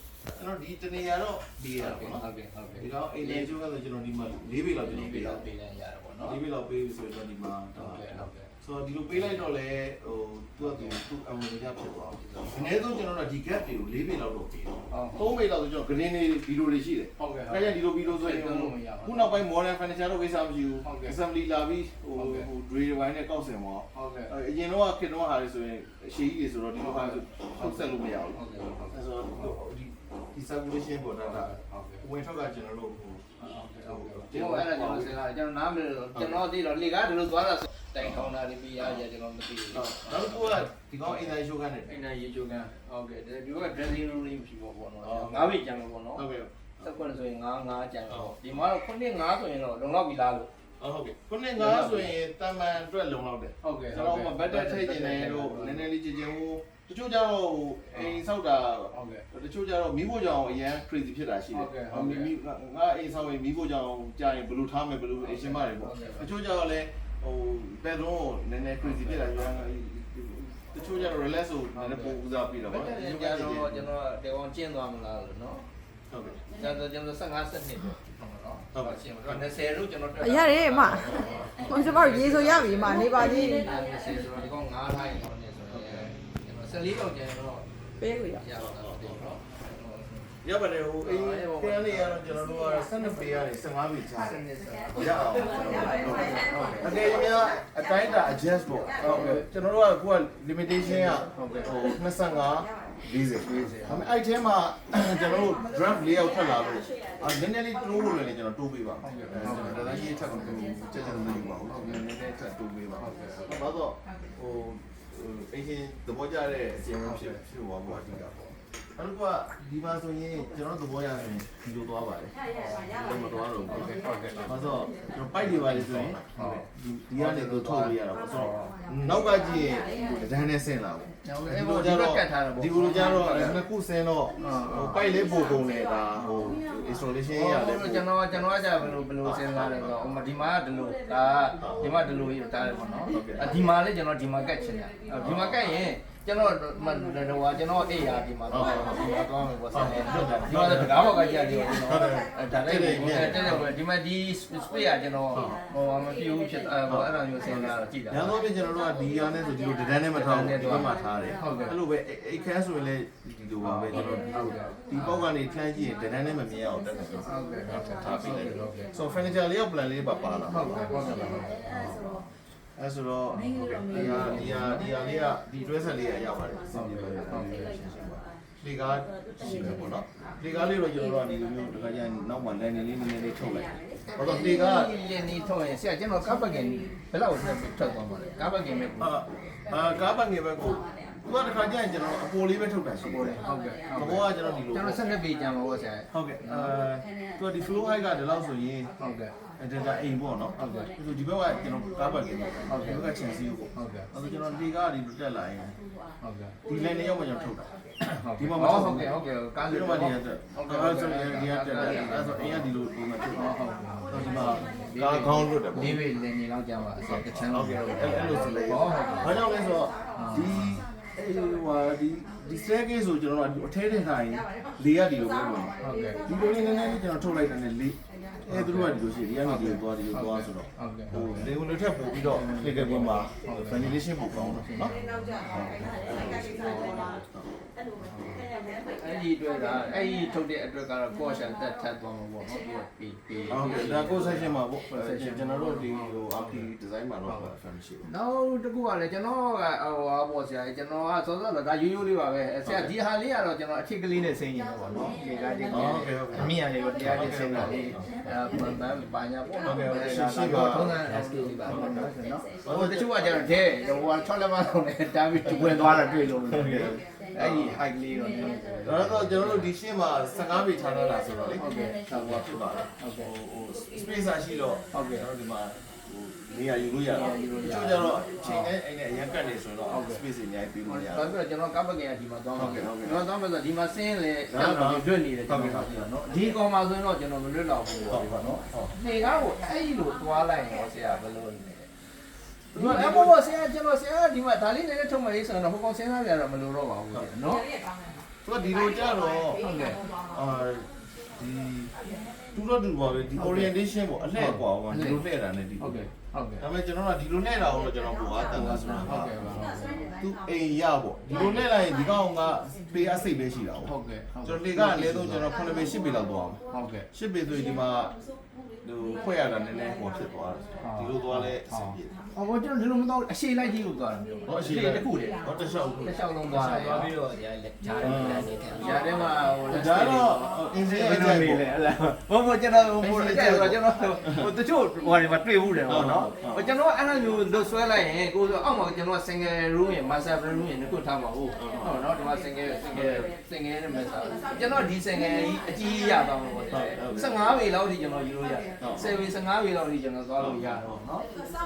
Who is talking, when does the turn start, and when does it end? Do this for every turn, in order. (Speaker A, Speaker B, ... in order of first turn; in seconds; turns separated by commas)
Speaker A: 0.3-2.2, Speaker B: 1.7-3.5, Speaker A: 2.8-5.4, Speaker B: 4.7-6.4, Speaker A: 6.2-33.2, Speaker B: 7.7-8.5, Speaker B: 9.1-9.4, Speaker B: 10.6-10.9, Speaker B: 12.2-12.9, Speaker B: 14.9-15.3, Speaker B: 17.2-19.4, Speaker B: 20.8-21.2, Speaker B: 22.1-22.5, Speaker B: 23.9-24.3, Speaker B: 26.8-29.6, Speaker B: 31.2-32.0, Speaker B: 33.4-41.3, Speaker A: 33.8-35.2, Speaker A: 36.1-36.5, Speaker A: 38.0-39.0, Speaker A: 39.7-41.9, Speaker B: 41.9-46.3, Speaker A: 45.0-45.6, Speaker A: 46.1-46.8, Speaker B: 46.8-50.5, Speaker A: 48.1-48.4, Speaker A: 50.8-73.8, Speaker B: 51.5-52.1, Speaker B: 53.6-55.9, Speaker B: 57.9-58.2, Speaker B: 58.9-59.2, Speaker B: 61.5-62.3, Speaker B: 65.2-66.3, Speaker B: 68.8-69.6, Speaker B: 71.7-75.7, Speaker A: 76.1-76.4, Speaker B: 76.5-87.7, Speaker A: 78.7-79.4, Speaker C: 80.3-81.1, Speaker A: 81.2-81.5, Speaker C: 81.7-83.6, Speaker A: 85.7-86.1, Speaker C: 88.0-88.4, Speaker B: 88.2-90.3, Speaker A: 88.6-89.2, Speaker A: 90.4-94.4, Speaker B: 91.0-92.5, Speaker B: 94.2-97.1, Speaker A: 94.9-122.3, Speaker B: 99.0-99.5, Speaker B: 100.8-101.7, Speaker B: 103.4-104.1, Speaker B: 109.0-110.5, Speaker B: 111.7-112.0, Speaker B: 113.0-113.5, Speaker B: 117.0-117.4, Speaker B: 122.5-122.9, Speaker A: 122.9-123.9, Speaker B: 123.7-124.7, Speaker A: 124.5-138.5, Speaker B: 125.4-128.7, Speaker B: 131.2-133.6, Speaker B: 134.4-135.0, Speaker B: 137.3-158.3, Speaker A: 139.2-140.0, Speaker A: 141.6-142.0, Speaker A: 143.1-143.6, Speaker A: 145.2-145.6, Speaker A: 148.5-149.1, Speaker A: 149.7-151.1, Speaker A: 151.7-153.7, Speaker A: 155.3-155.6, Speaker A: 156.9-164.3, Speaker B: 160.1-161.8, Speaker B: 163.6-165.1, Speaker A: 164.9-184.9, Speaker B: 167.2-168.9, Speaker B: 170.5-171.7, Speaker B: 173.3-174.9, Speaker B: 176.7-177.8, Speaker B: 179.4-179.8, Speaker B: 184.2-189.1, Speaker A: 189.0-193.4, Speaker B: 193.0-196.7, Speaker A: 193.9-195.0, Speaker A: 196.1-198.9, Speaker B: 199.0-199.3, Speaker A: 199.6-205.7, Speaker B: 200.6-200.9, Speaker B: 202.7-203.0, Speaker B: 203.7-204.1, Speaker B: 206.2-206.6, Speaker A: 206.7-207.7, Speaker B: 208.1-212.7, Speaker A: 208.2-213.5, Speaker B: 213.3-219.4, Speaker A: 214.1-216.0, Speaker A: 217.1-234.9, Speaker B: 220.2-220.7, Speaker B: 225.8-226.2, Speaker B: 228.5-231.5, Speaker B: 232.3-237.2, Speaker A: 235.5-237.4, Speaker B: 238.0-246.7, Speaker A: 243.5-248.1, Speaker B: 248.0-269.7, Speaker A: 252.6-252.9, Speaker A: 255.7-258.0, Speaker D: 256.3-257.8, Speaker A: 259.6-261.0, Speaker D: 260.3-262.4, Speaker A: 262.6-263.5, Speaker A: 265.4-267.8, Speaker A: 268.9-281.4, Speaker B: 271.6-272.4, Speaker B: 273.0-273.3, Speaker B: 274.9-275.2, Speaker B: 277.1-278.7, Speaker B: 279.9-280.2, Speaker B: 280.9-291.9, Speaker A: 282.6-283.1, Speaker A: 284.5-286.5, Speaker A: 288.1-288.9, Speaker A: 292.7-293.4, Speaker B: 292.7-297.6, Speaker A: 298.4-299.6, Speaker B: 299.6-300.0, Speaker A: 300.3-301.9, Speaker A: 302.5-306.1, Speaker B: 303.4-303.7, Speaker B: 304.3-305.2, Speaker B: 305.8-306.6, Speaker A: 306.6-309.4, Speaker B: 308.5-310.1, Speaker A: 310.2-313.9, Speaker B: 313.8-315.5, Speaker A: 314.4-318.1, Speaker B: 316.7-317.1, Speaker A: 318.8-322.1, Speaker B: 320.8-325.4, Speaker A: 324.4-326.2, Speaker B: 326.0-327.1, Speaker D: 326.4-329.5, Speaker A: 328.0-328.5, Speaker B: 328.8-351.2, Speaker A: 329.7-331.7, Speaker A: 333.0-334.4, Speaker A: 335.9-336.6, Speaker A: 341.5-342.1, Speaker A: 342.9-343.3, Speaker A: 346.7-347.4, Speaker A: 348.8-349.1, Speaker A: 350.4-351.0